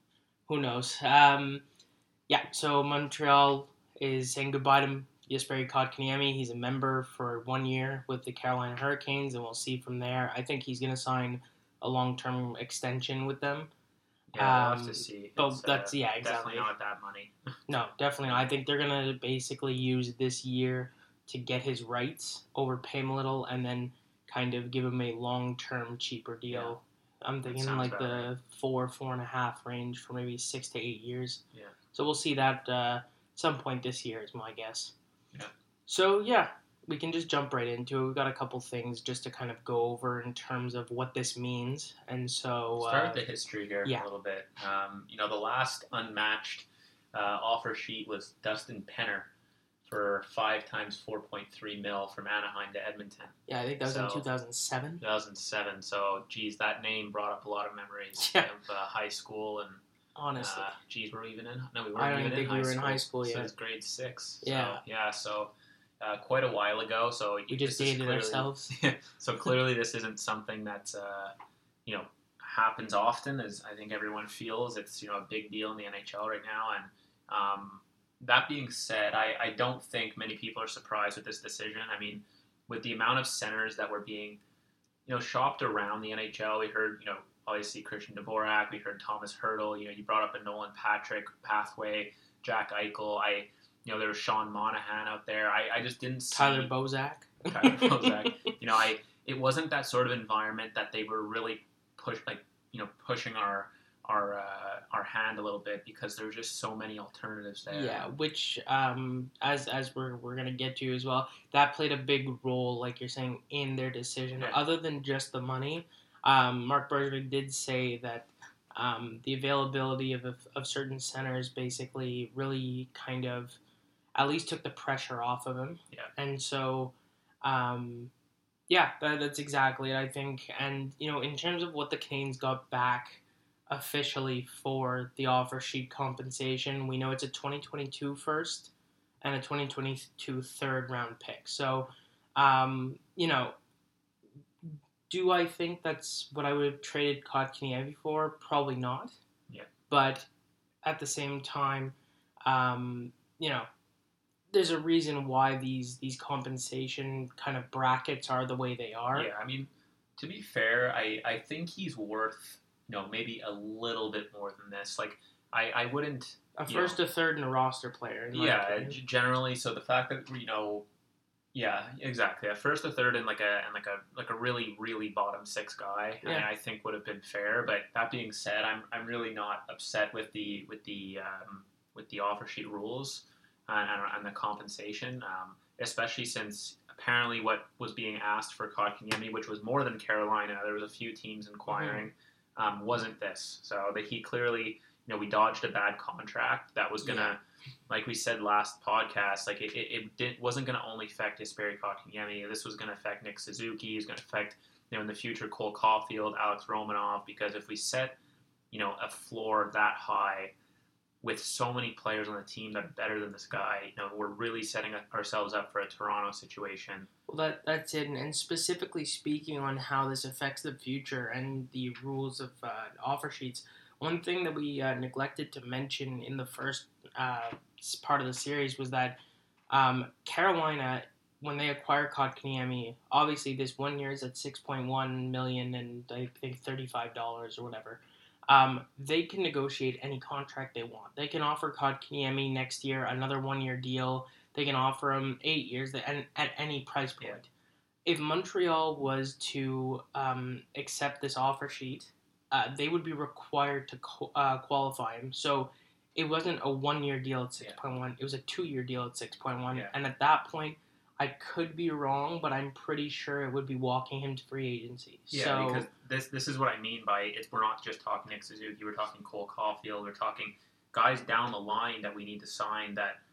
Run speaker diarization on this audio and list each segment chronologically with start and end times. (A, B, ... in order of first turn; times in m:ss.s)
0:00.5-0:01.6 A
0:02.3-0:13.7 A
0:14.3-0:17.3 B
0:14.4-0:16.7 A
0:17.7-0:31.4 A
0:26.5-0:26.8 B
0:27.5-0:28.3 B
0:31.9-0:34.9 A
0:35.9-0:43.2 A
0:42.8-0:49.3 B
0:49.8-0:54.2 B
0:53.5-0:55.0 A
0:55.0-0:59.8 B
0:58.2-0:58.5 A
1:00.2-1:00.8 A
1:00.4-1:11.3 B
1:01.9-1:03.5 A
1:04.4-1:04.8 A
1:07.5-1:08.7 A
1:11.8-1:24.4 B
1:25.0-1:36.7 B
1:36.3-1:38.5 A
1:37.5-1:48.1 B
1:47.7-2:03.6 A
2:04.2-2:08.1 A
2:08.7-2:18.7 A
2:19.2-2:23.5 A
2:24.6-2:29.1 A
2:29.9-2:30.3 A
2:30.8-2:33.7 A
2:34.5-2:39.3 A
2:39.1-2:47.0 B
2:46.6-2:49.0 A
2:48.3-2:50.9 B
2:51.5-3:28.2 B
3:11.7-3:12.0 A
3:17.0-3:17.3 A
3:28.7-3:30.5 B
3:31.2-3:37.1 B
3:37.3-3:49.2 A
3:49.7-4:07.5 A
4:08.0-4:25.9 A
4:25.3-4:33.2 B